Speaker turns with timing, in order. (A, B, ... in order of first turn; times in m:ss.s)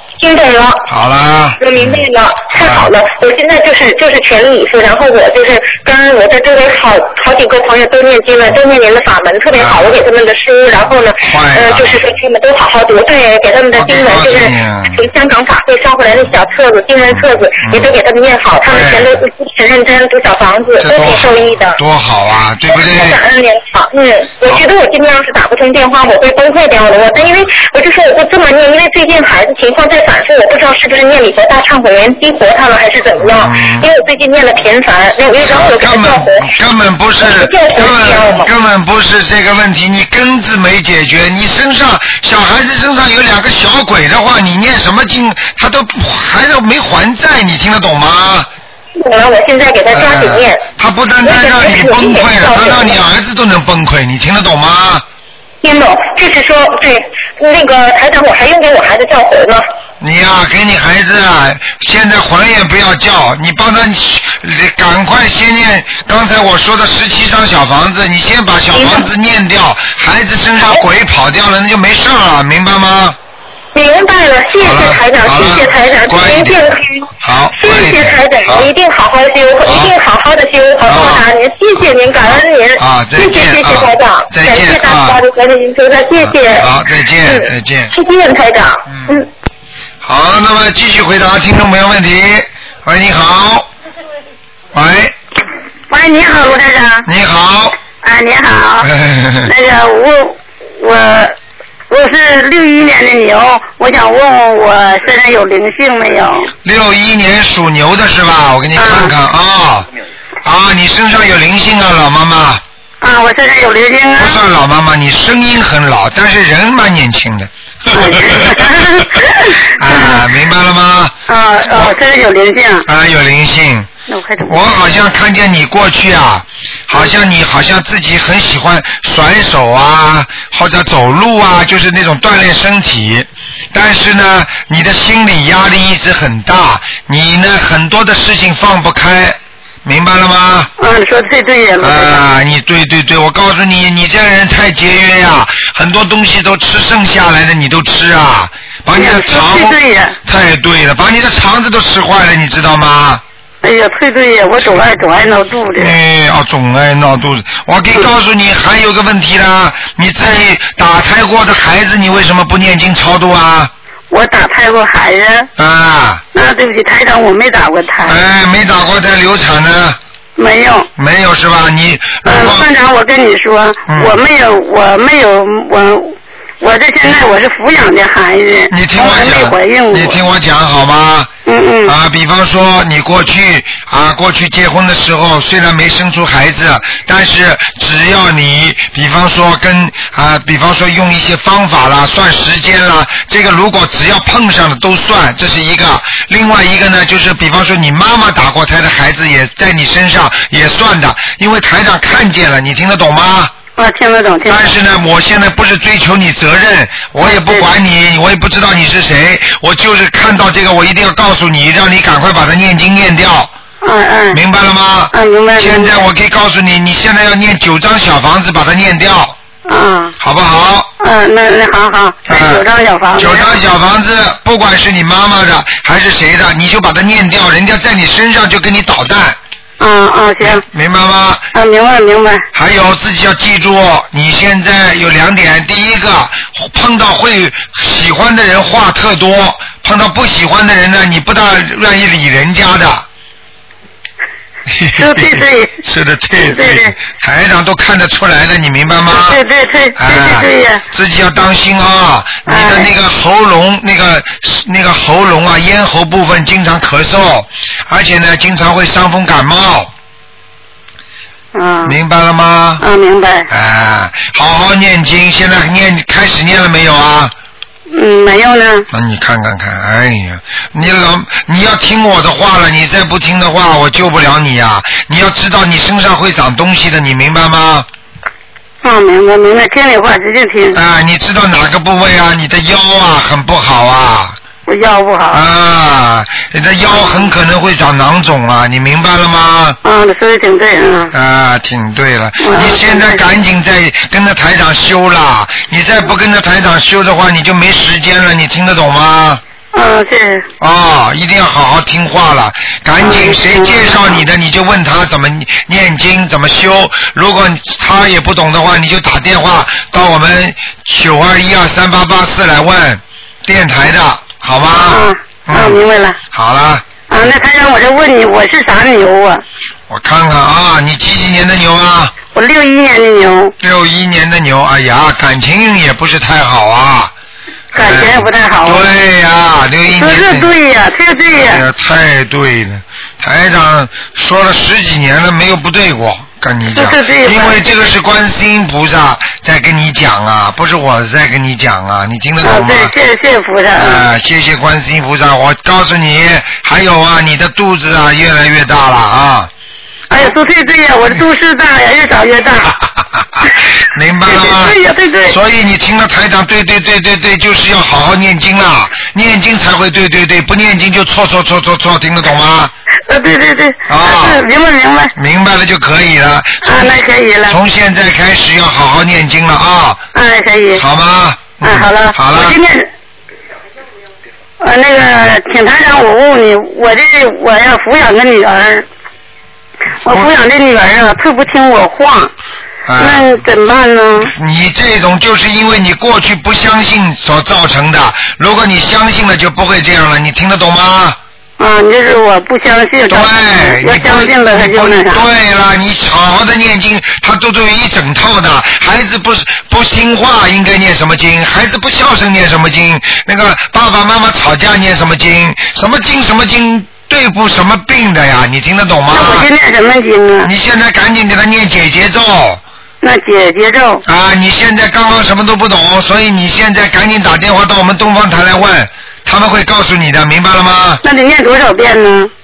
0:00.2-0:00.9 A
0:00.9-0:02.9 B
0:01.6-0:21.8 A
0:09.6-0:09.9 B
0:11.2-0:12.0 B
0:13.8-0:15.0 B
0:17.1-0:17.9 B
0:18.6-0:19.2 B
0:20.8-0:23.2 B
0:22.7-0:36.5 A
0:33.2-0:33.9 B
0:35.4-0:48.5 B
0:37.2-0:38.5 A
0:49.0-0:50.6 A
0:49.9-0:55.0 B
0:51.2-0:53.0 A
0:55.6-0:59.6 A
1:00.0-1:13.2 B
1:08.7-1:09.1 A
1:13.7-1:26.7 A
1:14.6-1:16.6 B
1:17.2-1:18.7 B
1:19.6-1:19.9 B
1:20.8-1:21.2 B
1:22.2-1:25.2 B
1:26.2-1:27.9 B
1:27.2-1:29.3 A
1:28.9-1:29.2 B
1:30.0-1:33.7 B
1:34.7-1:35.1 B
1:35.9-1:37.1 C
1:37.0-1:37.8 B
1:38.0-1:38.9 C
1:38.8-1:39.5 B
1:39.4-1:41.4 C
1:41.9-1:46.5 C
1:46.6-1:49.9 B
1:48.8-1:49.1 C
1:50.4-1:52.6 B
1:53.0-1:54.4 C
1:54.2-2:02.0 B
1:57.9-2:00.3 C
2:01.3-2:02.8 C
2:02.8-2:03.9 B
2:04.1-2:04.6 C
2:04.5-2:20.7 B
2:20.8-2:22.2 C
2:21.8-2:33.2 B
2:28.9-2:30.2 C
2:33.6-2:36.0 C
2:35.8-2:43.7 B
2:40.2-2:40.5 C
2:44.1-2:45.5 C
2:45.6-2:46.2 B
2:46.3-2:48.2 C
2:48.0-2:50.0 B
2:50.4-2:50.9 C
2:51.0-2:52.7 B
2:52.2-3:00.2 C
2:53.9-2:54.2 B
2:58.7-3:01.3 B
3:01.4-3:01.9 C
3:01.8-3:23.5 B
3:23.8-3:24.7 C
3:24.5-3:33.5 B
3:27.2-3:27.7 C
3:33.8-3:34.4 C
3:34.3-3:39.4 B
3:35.1-3:35.9 C
3:39.7-3:40.2 C
3:40.2-3:40.9 B
3:41.0-3:43.5 C
3:42.3-3:49.4 B
3:49.8-3:50.6 C
3:50.4-3:51.4 B
3:51.5-3:52.4 C
3:52.5-4:03.0 B
4:04.7-4:09.4 B
4:04.9-4:05.8 C
4:06.4-4:07.0 C
4:09.1-4:10.8 C
4:10.0-4:19.9 B
4:12.5-4:12.9 C
4:21.5-4:22.0 C
4:21.8-4:22.8 B
4:22.8-4:23.5 C
4:23.5-4:27.3 B
4:27.9-4:28.9 C
4:28.9-4:37.9 B
4:38.8-4:40.8 C
4:40.7-4:44.4 B
4:44.6-4:45.4 C
4:45.3-4:49.8 B
4:46.9-4:47.2 C
4:49.8-4:51.1 C
4:51.1-4:59.4 B
4:52.4-4:53.2 C
4:59.7-5:00.5 C
5:00.6-5:15.8 B
5:03.0-5:04.2 C
5:14.7-5:16.2 C
5:16.3-5:16.9 B
5:17.1-5:19.4 C
5:19.9-5:22.1 B
5:22.3-5:23.5 C
5:23.6-5:27.1 B
5:27.7-5:30.5 B
5:27.7-5:28.8 C
5:29.9-5:31.6 C
5:31.4-5:42.9 B
5:36.7-5:37.6 C
5:42.4-5:44.0 C
5:43.7-5:49.5 B
5:50.1-5:52.7 C
5:52.6-6:02.7 B
5:54.2-5:55.4 C
6:03.1-6:05.1 C
6:03.9-6:04.4 B
6:05.1-6:10.0 B
6:06.6-6:07.6 C
6:10.1-6:10.8 C
6:10.7-6:12.6 B
6:11.6-6:12.9 C
6:14.6-6:18.8 C
6:20.0-6:22.3 C
6:22.8-6:23.3 B
6:23.0-6:24.3 C
6:24.2-6:31.2 B
6:31.6-6:35.2 C
6:33.1-6:49.5 B
6:49.1-6:50.5 C
6:50.4-6:52.6 B
6:53.0-6:54.0 C
6:54.0-7:01.0 B
7:01.0-7:02.3 C